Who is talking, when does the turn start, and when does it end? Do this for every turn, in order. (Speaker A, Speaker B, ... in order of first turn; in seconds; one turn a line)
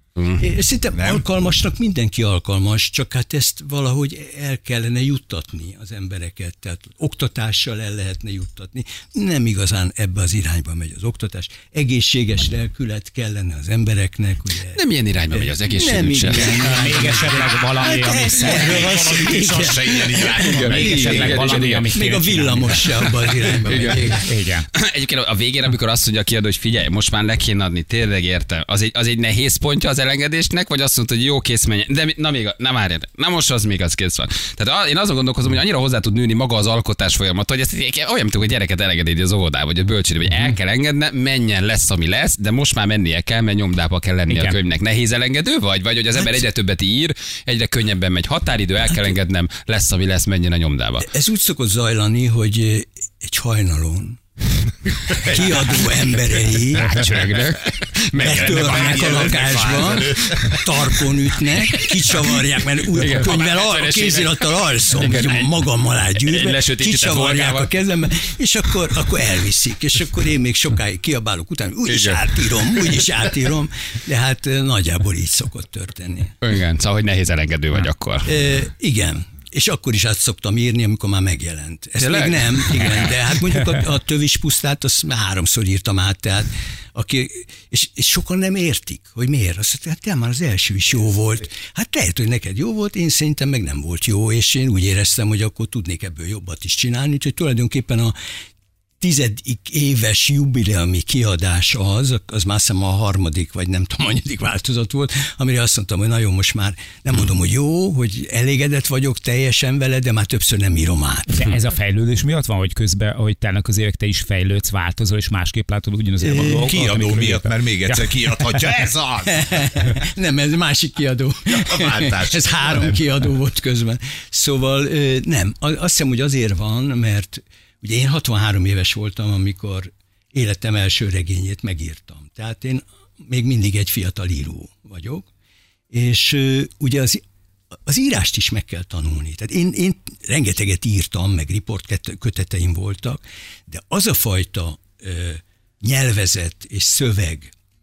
Speaker A: 0.4-21.3
Speaker B: 0.9-1.2
Speaker C: 14.8-16.6
Speaker B: 16.3-16.6
Speaker D: 16.6-19.2
Speaker B: 18.4-21.7
Speaker C: 20.2-22.0
Speaker D: 20.6-22.9
Speaker A: 21.9-24.2
Speaker C: 23.7-24.2
Speaker D: 23.8-24.7
Speaker C: 24.7-51.1
Speaker D: 44.3-44.6
Speaker A: 46.2-46.4
Speaker A: 48.9-49.1
Speaker A: 51.0-54.2
Speaker A: 55.1-57.0
Speaker C: 56.7-60.5
Speaker A: 58.2-76.3
Speaker B: 58.5-60.6
Speaker C: 62.9-65.5
Speaker C: 66.2-67.7
Speaker C: 71.9-73.1
Speaker C: 76.4-78.3
Speaker A: 78.2-98.2
Speaker C: 82.0-83.1
Speaker A: 99.0-111.4
Speaker D: 111.3-118.6
Speaker A: 116.2-116.7
Speaker B: 116.3-119.7
Speaker A: 119.3-135.3
Speaker B: 121.5-123.0
Speaker A: 135.9-137.2
Speaker A: 137.9-147.5